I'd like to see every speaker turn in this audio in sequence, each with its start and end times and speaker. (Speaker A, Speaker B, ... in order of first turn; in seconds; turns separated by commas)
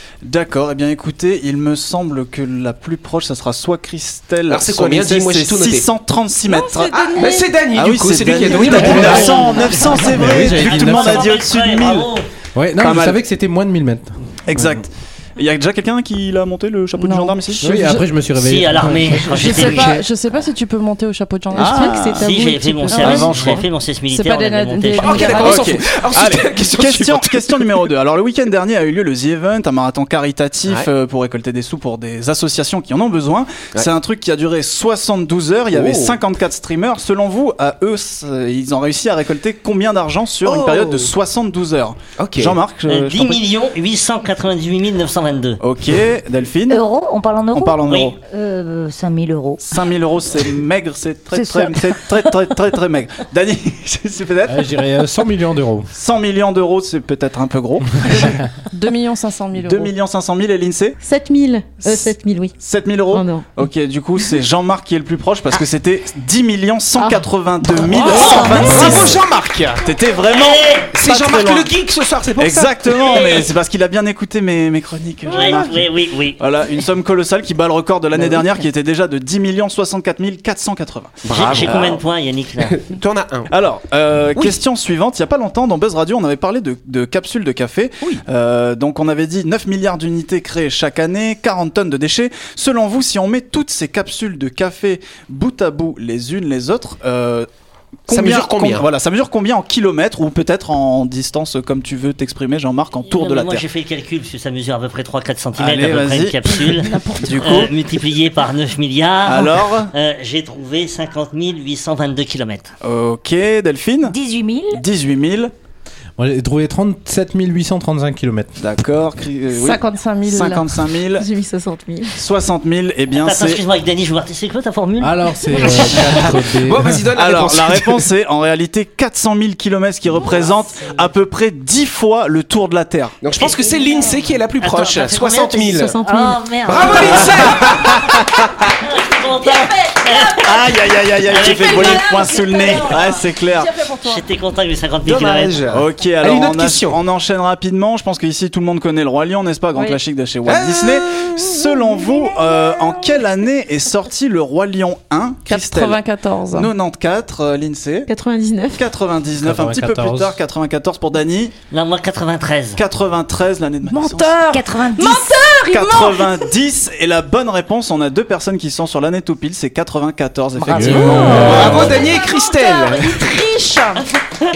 Speaker A: 0.2-7.2, Speaker B: 4.5-5.9, Speaker C: 6.5-7.5, Speaker B: 6.9-9.7, Speaker A: 7.7-12.1, Speaker D: 8.5-9.5, Speaker C: 9.3-9.6, Speaker D: 10.0-11.3, Speaker E: 10.3-12.3, Speaker D: 12.5-14.8, Speaker A: 12.8-13.2, Speaker A: 14.5-18.0, Speaker C: 17.0-18.0, Speaker D: 17.6-20.0, Speaker E: 18.4-20.0, Speaker C: 19.2-23.6, Speaker A: 21.5-22.3, Speaker F: 21.7-22.9, Speaker E: 22.1-25.6, Speaker A: 22.9-23.6, Speaker C: 24.1-25.6, Speaker B: 25.0-27.8, Speaker A: 25.4-43.5, Speaker B: 35.7-36.1, Speaker B: 40.4-41.1, Speaker B: 42.2-42.6, Speaker E: 42.9-45.6, Speaker A: 45.6-46.8, Speaker G: 46.7-49.6, Speaker A: 47.5-48.2, Speaker E: 47.9-48.1, Speaker A: 49.6-54.8, Speaker G: 51.3-52.1, Speaker D: 54.5-55.9, Speaker A: 55.9-58.4, Speaker C: 58.1-59.9, Speaker A: 59.5-61.0, Speaker F: 61.0-62.5, Speaker A: 61.8-69.2, Speaker F: 63.1-63.5, Speaker F: 67.0-67.2, Speaker B: 67.9-69.9, Speaker G: 68.2-69.1, Speaker A: 69.8-71.7, Speaker E: 70.3-70.9, Speaker B: 70.9-73.4, Speaker A: 72.4-81.9, Speaker E: 75.3-76.4, Speaker B: 81.2-82.0, Speaker E: 81.3-82.8, Speaker B: 82.6-83.5, Speaker A: 83.5-97.5, Speaker A: 98.1-103.7, Speaker B: 98.1-98.9, Speaker E: 103.1-112.7, Speaker A: 105.5-107.7, Speaker A: 109.2-109.9, Speaker A: 112.8-114.2, Speaker G: 114.0-114.8, Speaker A: 114.7-115.5, Speaker D: 116.2-118.5, Speaker A: 118.6-121.3, Speaker C: 119.5-120.7, Speaker F: 121.2-122.2, Speaker A: 122.1-123.6, Speaker E: 123.2-126.2, Speaker D: 125.0-127.0, Speaker B: 126.5-128.0, Speaker A: 127.1-133.2, Speaker C: 130.4-130.8, Speaker B: 133.2-135.9, Speaker E: 133.4-133.7, Speaker E: 134.6-143.1, Speaker F: 135.7-137.2, Speaker B: 136.6-138.4, Speaker A: 137.1-138.1, Speaker C: 139.4-140.2, Speaker A: 140.4-143.7, Speaker C: 141.3-144.2, Speaker E: 144.0-145.6, Speaker B: 145.0-147.0, Speaker A: 145.7-158.1, Speaker C: 149.7-150.0, Speaker B: 150.4-151.7, Speaker G: 152.1-153.0, Speaker C: 155.5-156.7, Speaker F: 158.1-158.9, Speaker A: 158.7-161.5, Speaker D: 159.4-160.4, Speaker E: 161.7-162.8, Speaker A: 162.7-172.0, Speaker C: 163.9-166.5, Speaker G: 164.5-165.2, Speaker G: 170.6-171.8, Speaker D: 170.7-171.6, Speaker C: 170.8-174.1, Speaker B: 171.0-173.3